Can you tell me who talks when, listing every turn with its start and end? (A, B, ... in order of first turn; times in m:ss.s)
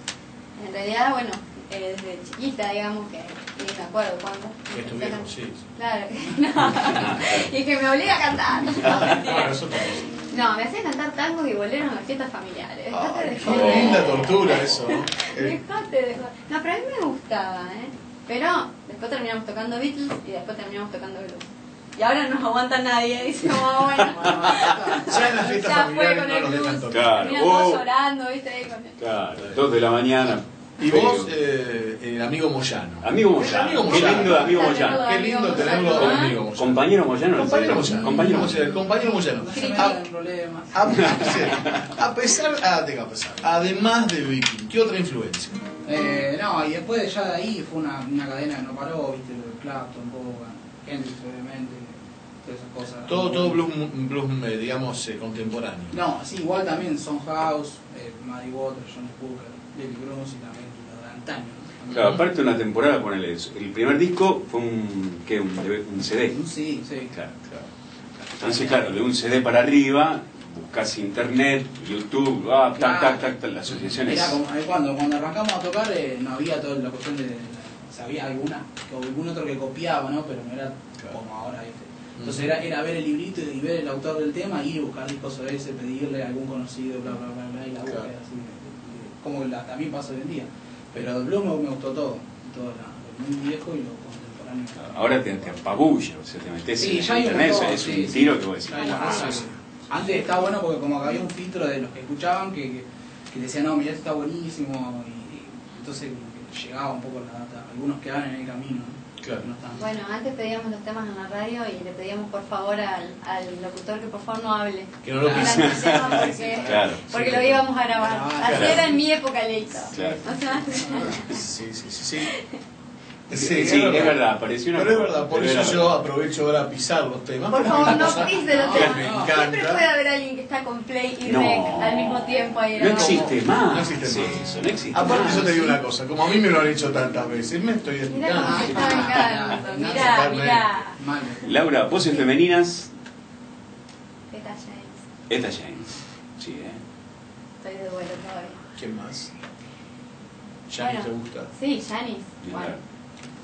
0:00.6-0:29.0 A
0:04.7-0:05.6 B
0:06.6-0:07.5 C
0:08.8-0:10.0 B
0:08.9-0:09.2 C
0:12.9-0:15.6 B
0:13.4-0:14.0 C
0:24.1-0:25.5 D
0:25.0-0:27.1 B
0:26.9-0:27.8 C
0:29.0-0:31.3 C
0:30.8-0:40.0 B
0:33.0-0:38.6 C
0:33.9-0:36.4 A
0:39.4-0:41.7 D
0:39.5-0:40.0 A
0:40.7-0:45.6 B
0:40.9-0:41.9 C
0:45.8-0:53.6 D
0:53.1-0:56.0 B
0:55.9-1:02.2 D
1:01.9-1:06.4 C
1:06.3-1:07.1 D
1:07.1-1:07.5 C
1:08.4-1:14.4 C
1:08.4-1:08.8 D
1:12.8-1:13.3 D
1:14.0-1:35.6 D
1:22.2-1:22.5 B
1:34.8-1:39.4 C
1:36.8-1:49.9 D
1:38.7-1:39.4 A
1:49.2-1:49.4 B
1:49.8-2:01.2 A
1:55.0-1:55.8 B
1:55.2-1:57.0 D
1:55.4-1:57.6 C
1:58.0-1:59.0 D
1:58.5-1:58.8 C
1:59.9-2:00.2 D
1:59.9-2:00.2 C
2:00.8-2:01.3 D
2:01.2-2:02.3 B
2:03.3-2:09.8 B
2:03.3-2:05.9 C
2:07.5-2:13.3 A
2:08.4-2:09.4 D
2:08.7-2:09.0 C
2:11.2-2:15.7 C
2:12.8-2:19.2 B
2:15.0-2:15.8 D
2:18.1-2:21.0 A
2:18.4-2:20.3 D
2:19.8-2:20.7 B
2:21.0-2:21.5 D
2:21.4-2:22.9 C
2:24.3-2:25.0 A
2:25.3-2:26.8 C
2:27.6-2:28.6 A
2:28.8-2:29.3 B
2:30.7-2:31.5 B
2:30.8-2:32.8 A
2:32.4-2:32.8 C